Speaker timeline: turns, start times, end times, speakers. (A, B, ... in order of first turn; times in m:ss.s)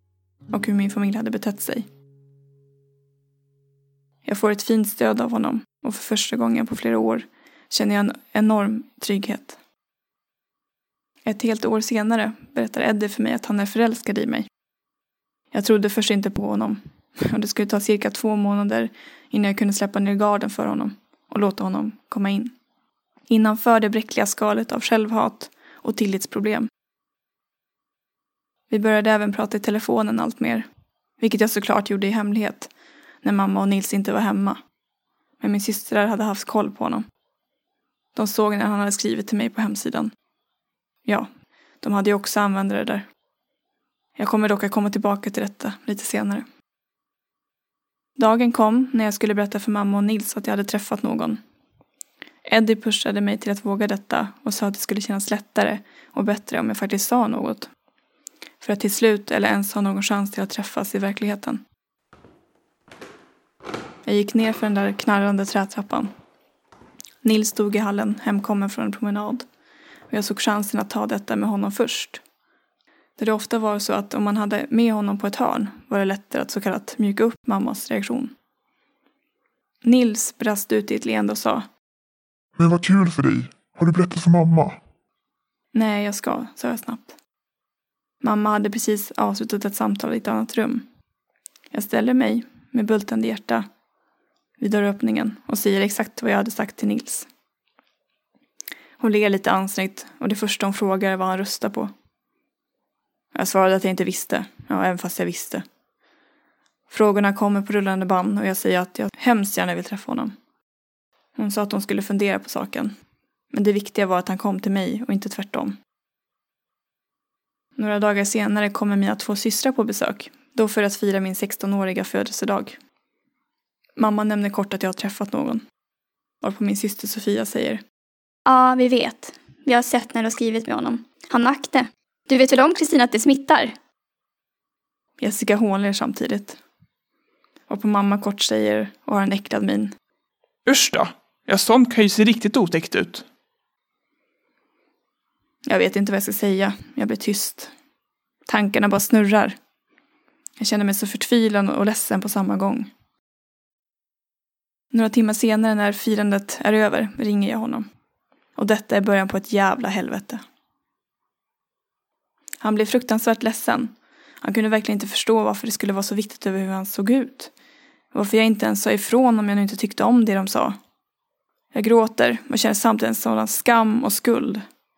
0:00.5-0:01.9 A
0:04.2-0:09.6 A
0:11.2-0:14.5 A
0:15.5-0:22.5 A
0:23.3-0:26.7 A
0:28.7-0:30.7 A
0:31.2-0:32.7 A
0:33.2-0:34.6 A
0:35.4-0:37.0 A
0:38.1-0:40.1 A
0:41.0-0:41.3 A
0:41.8-0:43.1 A
0:44.2-0:46.5 A
0:48.2-0:51.4 A
0:52.4-0:57.7 A
0:58.6-1:01.6 A
1:04.0-1:06.1 A
1:07.2-1:09.5 A
1:10.1-1:12.2 A
1:13.2-1:18.3 A
1:19.8-1:21.7 A
1:22.6-1:24.8 B
1:25.7-1:27.2 A
1:28.2-1:30.9 A
1:31.7-1:33.7 A
1:34.6-1:37.3 A
1:39.0-1:41.9 A
1:43.3-1:45.6 A
1:46.9-1:50.4 A
1:51.4-1:53.0 A
1:53.5-1:55.8 A
1:57.8-2:02.8 A
2:04.0-2:05.6 A
2:06.4-2:07.8 A
2:08.4-2:13.7 C
2:15.2-2:16.6 A
2:17.7-2:19.9 A
2:20.6-2:23.2 D
2:25.6-2:27.7 A
2:28.4-2:29.6 A
2:30.6-2:32.9 A
2:34.9-2:37.9 A
2:38.6-2:40.4 A
2:42.6-2:47.5 A
2:48.1-2:50.8 A
2:51.7-2:54.6 A